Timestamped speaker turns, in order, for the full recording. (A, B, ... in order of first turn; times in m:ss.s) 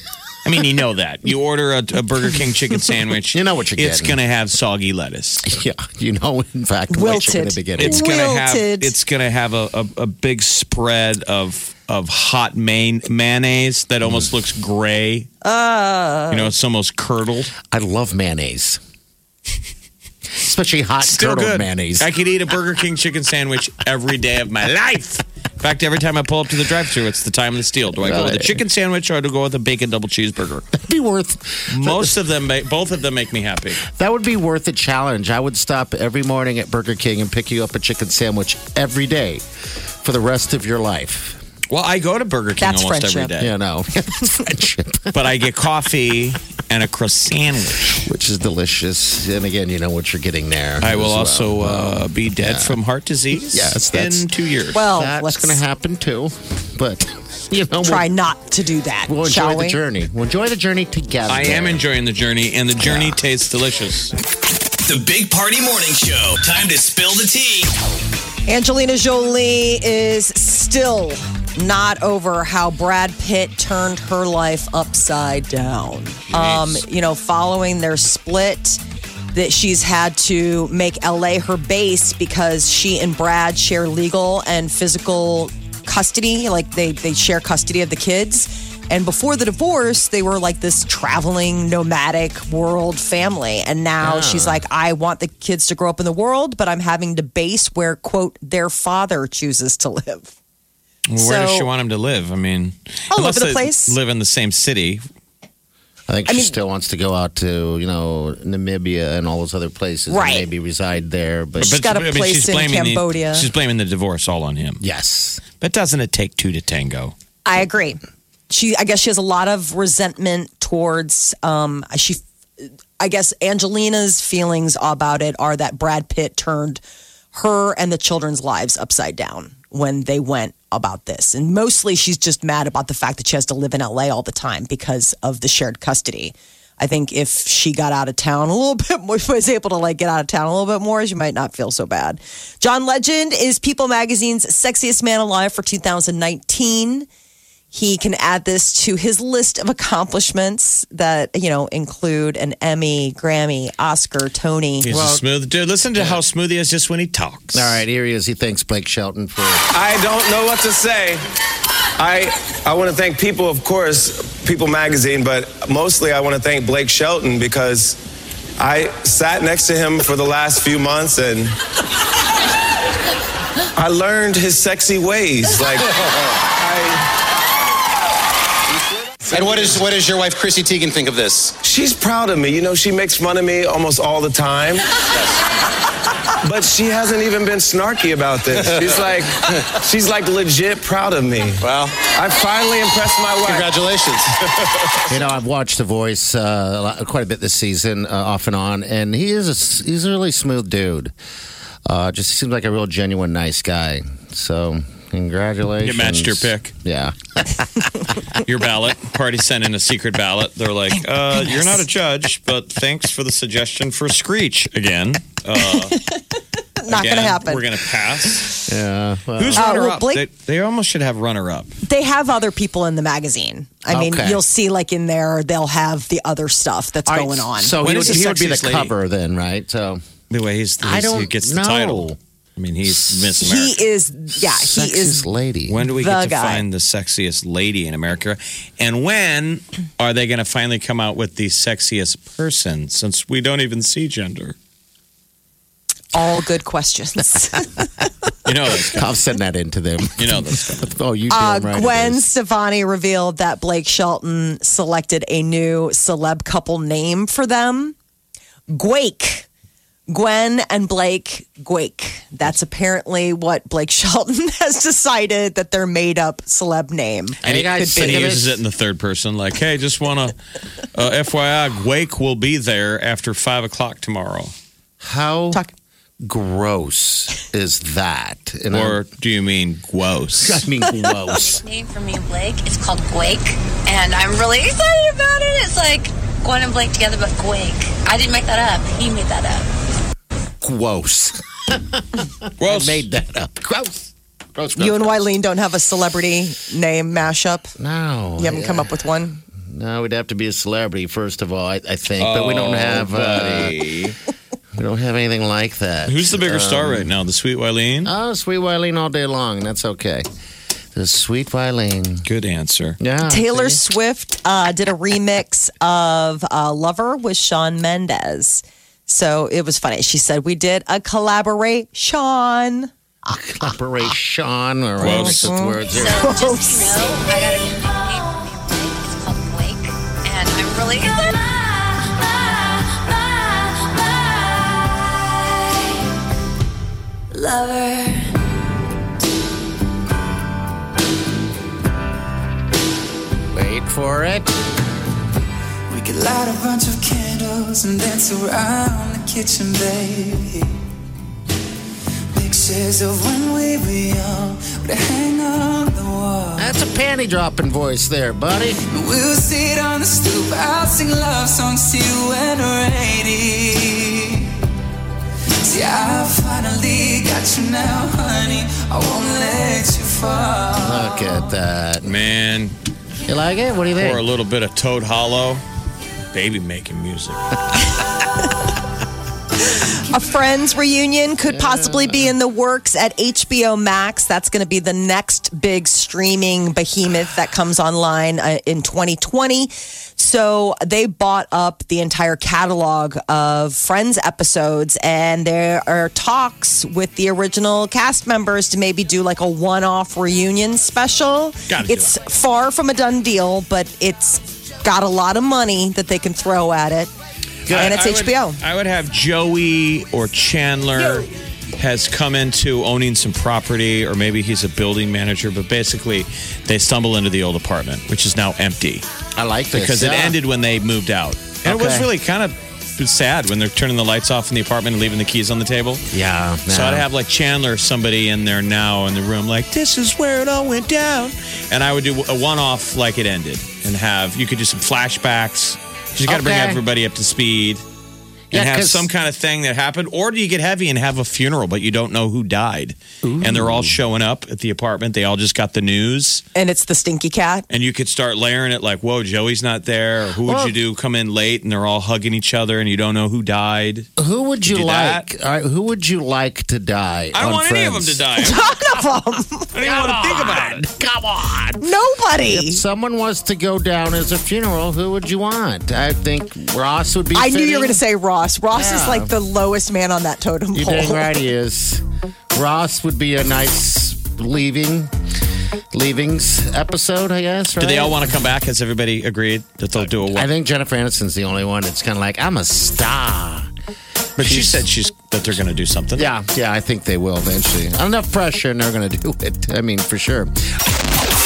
0:00.4-0:05.5 A
0:03.3-0:04.2 B
0:05.4-0:08.0 B
0:06.9-0:08.9 C
0:07.8-0:15.3 A
0:15.4-0:16.5 C
0:16.3-0:17.5 A
0:17.7-0:18.8 B
0:20.4-0:22.1 B
0:21.0-0:30.7 A
0:28.0-0:28.6 B
0:30.7-0:32.1 B
0:31.7-0:33.8 A
0:33.8-0:39.4 B
0:40.0-0:41.4 B
0:41.7-0:43.5 A
0:42.6-0:43.3 C
0:43.4-0:45.3 B
0:45.1-0:48.0 A
0:47.9-0:52.8 B
0:50.8-0:54.8 A
0:53.3-0:54.2 B
0:54.7-0:55.6 C
0:54.8-0:58.1 B
0:57.8-0:59.8 C
0:59.1-1:01.8 B
1:01.3-1:04.1 A
1:02.8-1:03.2 B
1:04.9-1:07.7 D
1:08.5-1:18.8 C
1:16.3-1:16.8 A
1:19.3-1:40.3 C
1:34.0-1:34.6 B
1:41.1-1:45.0 A
1:41.2-1:41.7 C
1:43.1-1:44.0 C
1:46.1-1:51.8 B
1:46.2-1:46.6 C
1:50.1-1:50.5 C
1:51.6-1:53.5 C
1:51.6-1:54.8 A
1:54.8-1:55.4 B
1:55.6-1:57.1 A
1:57.4-1:58.0 C
1:58.5-2:02.2 C
2:03.0-2:06.8 C
2:07.3-2:27.1 C
2:27.7-2:34.9 C
2:34.8-2:37.8 A
2:34.9-2:35.2 B
2:37.5-2:39.7 B
2:39.7-2:41.2 E
2:42.0-2:48.0 E
2:48.6-2:51.5 E
2:53.8-2:57.1 E
2:59.3-2:59.8 E
2:59.3-3:01.5 F
3:01.6-3:04.9 E
3:06.4-3:13.8 E
3:11.6-3:12.0 F
3:13.5-3:14.3 F
3:15.1-3:21.1 B
3:21.8-3:28.0 B
3:25.8-3:26.7 A
3:28.4-3:36.0 A
3:35.7-3:36.2 C
3:36.8-3:37.6 C
3:36.9-3:38.6 A
3:38.6-3:39.7 B
3:39.4-3:41.7 A
3:39.5-3:40.2 C
3:41.8-3:48.0 C
3:43.9-3:44.4 B
3:47.1-3:50.0 B
3:47.8-3:48.9 A
3:50.3-3:53.8 A
3:50.8-3:52.2 B
3:53.4-3:55.3 C
3:54.4-3:55.8 B
3:55.7-4:04.6 A
3:55.9-3:56.6 C
4:06.1-4:07.9 C
4:08.4-4:09.0 A
4:08.8-4:12.2 B
4:10.1-4:11.0 A
4:11.3-4:17.9 C
4:18.7-4:19.5 C
4:20.1-4:28.4 C
4:27.4-4:28.5 B
4:27.4-4:30.3 A
4:30.9-4:34.5 A
4:35.0-4:35.6 B
4:36.2-4:39.0 B
4:38.7-4:40.6 A
4:40.4-4:41.6 B
4:41.2-4:49.7 G
4:50.6-4:55.2 B
4:52.6-4:53.1 A
4:54.8-4:57.7 C
4:57.8-4:58.9 B
4:58.4-4:59.4 C
4:59.7-5:03.7 B
5:02.2-5:04.2 A
5:04.8-5:07.1 B
5:06.1-5:08.1 A
5:08.0-5:10.2 B
5:10.9-5:12.2 B
5:12.2-5:13.0 A
5:13.0-5:13.8 B
5:13.2-5:22.9 C
5:23.3-5:26.3 B
5:25.0-5:27.3 C
5:25.0-5:25.5 A
5:25.9-5:35.1 G
5:37.3-5:38.2 G
5:43.5-5:44.5 B
5:45.9-5:50.7 H
5:52.3-5:56.7 H
5:56.6-5:58.8 B
5:58.9-6:04.5 H
6:05.6-6:11.3 H
6:10.8-6:12.1 B
6:12.0-6:12.8 A
6:13.3-6:14.2 B
6:14.0-6:15.6 A
6:16.3-6:17.5 A
6:19.7-6:47.1 C
6:21.5-6:22.3 B
6:41.7-6:42.1 A
6:47.7-6:48.0 B
6:47.7-6:59.0 A
6:47.7-6:48.6 C
6:59.4-7:00.4 B
6:59.7-7:06.1 A
7:01.6-7:02.1 B
7:06.1-7:07.1 B
7:06.7-7:17.8 A
7:16.3-7:16.8 B
7:18.5-7:19.1 B
7:18.5-7:26.4 A
7:23.2-7:24.0 B
7:26.5-7:27.6 C
7:27.7-7:34.1 A
7:30.4-7:30.8 B
7:34.2-7:38.2 B
7:34.6-7:35.2 A
7:37.3-7:38.6 A
7:38.4-7:39.7 C
7:39.7-7:40.9 A
7:39.8-7:41.8 B
7:41.8-7:42.8 C
7:42.4-7:48.0 B
7:47.3-7:51.4 C
7:48.7-7:49.3 B
7:50.7-7:55.1 B
7:55.9-7:58.3 B
7:57.8-8:00.5 A
8:00.0-8:03.7 B
8:04.4-8:06.3 A
8:04.4-8:04.8 B
8:06.2-8:10.5 B